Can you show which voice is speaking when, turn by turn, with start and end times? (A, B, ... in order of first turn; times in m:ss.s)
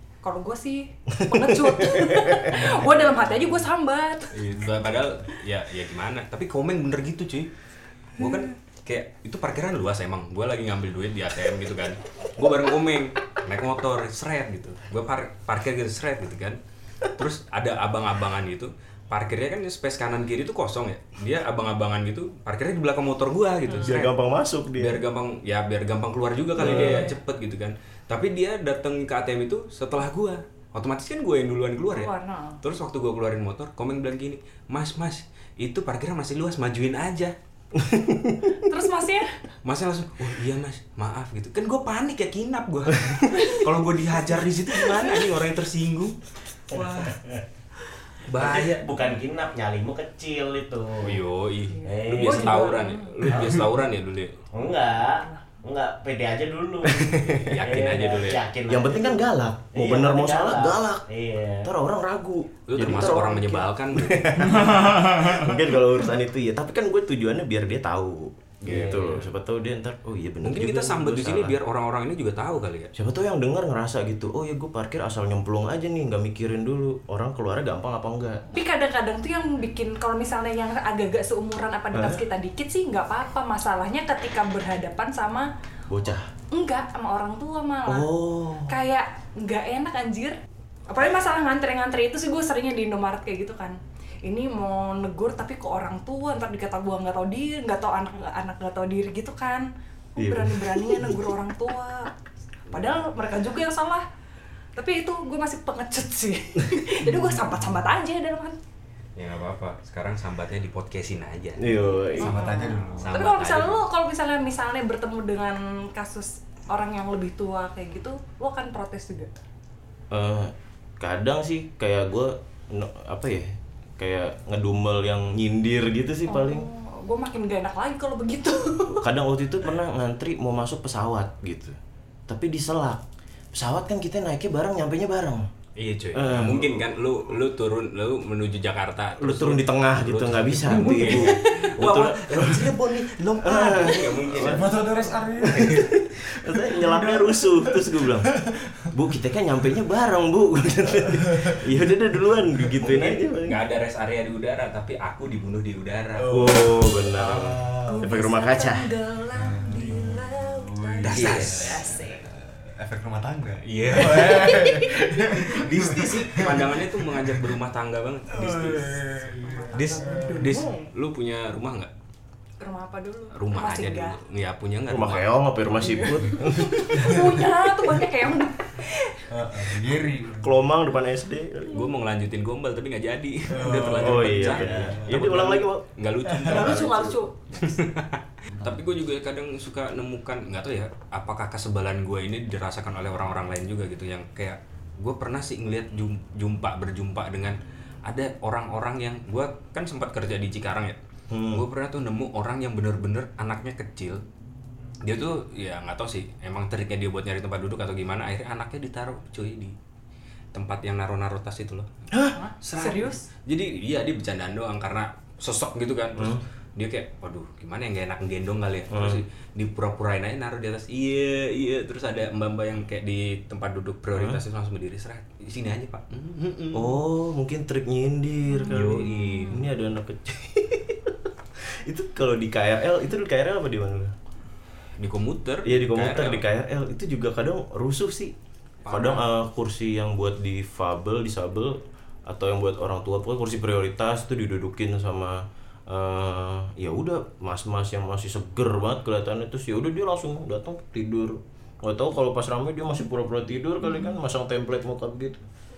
0:00.2-0:04.4 A
0:01.1-0:02.7 B
0:04.3-0:07.5 C
0:08.2-0:24.1 C
0:23.7-0:23.9 A
0:23.8-0:25.0 B
0:24.7-0:37.3 C
0:26.6-0:27.1 B
0:26.6-0:27.1 A
0:31.9-0:32.6 A
0:37.7-0:38.5 B
0:38.6-0:39.3 A
0:39.6-0:46.2 C
0:43.3-0:43.7 A
0:46.7-0:47.3 C
0:48.2-0:48.9 C
0:48.3-0:51.2 D
0:51.0-0:54.4 C
0:51.7-0:53.3 A
0:51.8-0:52.8 D
0:53.3-0:53.6 D
0:54.5-0:59.2 D
0:55.1-0:55.4 A
0:57.0-0:57.6 B
0:57.3-0:58.4 C
0:58.7-1:01.0 B
0:59.7-1:01.7 D
1:01.6-1:11.6 B
1:02.7-1:04.7 C
1:04.6-1:05.5 E
1:08.6-1:09.3 D
1:10.4-1:12.9 C
1:12.9-1:18.4 B
1:18.5-1:25.5 A
1:21.9-1:22.2 B
1:25.9-1:26.3 B
1:26.5-1:28.1 A
1:27.8-1:28.8 B
1:28.6-1:30.4 A
1:30.9-1:42.1 A
1:40.2-1:41.3 B
1:42.7-1:44.0 A
1:44.8-1:48.6 A
1:49.2-1:51.7 C
1:51.6-1:52.4 B
1:51.7-1:59.3 A
1:52.2-1:53.1 E
1:52.9-1:53.8 C
2:00.1-2:06.7 B
2:06.3-2:09.1 A
2:08.9-2:13.0 B
2:13.5-2:15.5 B
2:15.8-2:24.8 C
2:16.1-2:16.8 B
2:19.2-2:24.8 B
2:20.8-2:21.2 A
2:23.6-2:28.9 E
2:25.4-2:28.3 B
2:28.9-2:33.6 B
2:31.0-2:31.6 E
2:32.6-2:33.1 E
2:32.8-2:36.3 C
2:36.2-2:38.2 E
2:36.3-2:38.9 B
2:37.9-2:42.3 A
2:39.3-2:47.4 E
2:41.0-2:41.9 C
2:41.2-2:41.5 B
2:43.6-2:49.0 C
2:44.2-2:45.0 A
2:48.3-2:50.6 E
2:49.4-2:50.9 A
2:49.7-2:51.9 C
2:52.6-2:54.2 A
2:53.3-2:55.3 C
2:54.9-2:57.4 B
2:55.7-2:59.3 A
2:57.0-2:57.4 E
2:59.3-3:00.6 E
3:00.4-3:01.9 B
3:01.7-3:21.0 C
3:03.5-3:05.3 E
3:03.9-3:05.8 B
3:06.3-3:06.8 E
3:06.4-3:07.3 A
3:21.3-3:21.6 B
3:21.5-3:24.2 C
3:25.0-3:29.7 C
3:30.5-3:31.9 C
3:32.1-3:32.4 B
3:32.3-3:33.2 A
3:32.6-3:47.0 C
3:36.2-3:36.4 B
3:38.9-3:39.2 B
3:44.1-3:44.4 B
3:46.7-3:54.1 B
3:48.5-3:49.7 A
3:48.7-3:49.6 C
3:55.0-3:56.4 C
3:55.6-3:58.3 B
3:58.8-3:59.2 C
3:58.9-4:15.4 B
4:13.8-4:14.1 A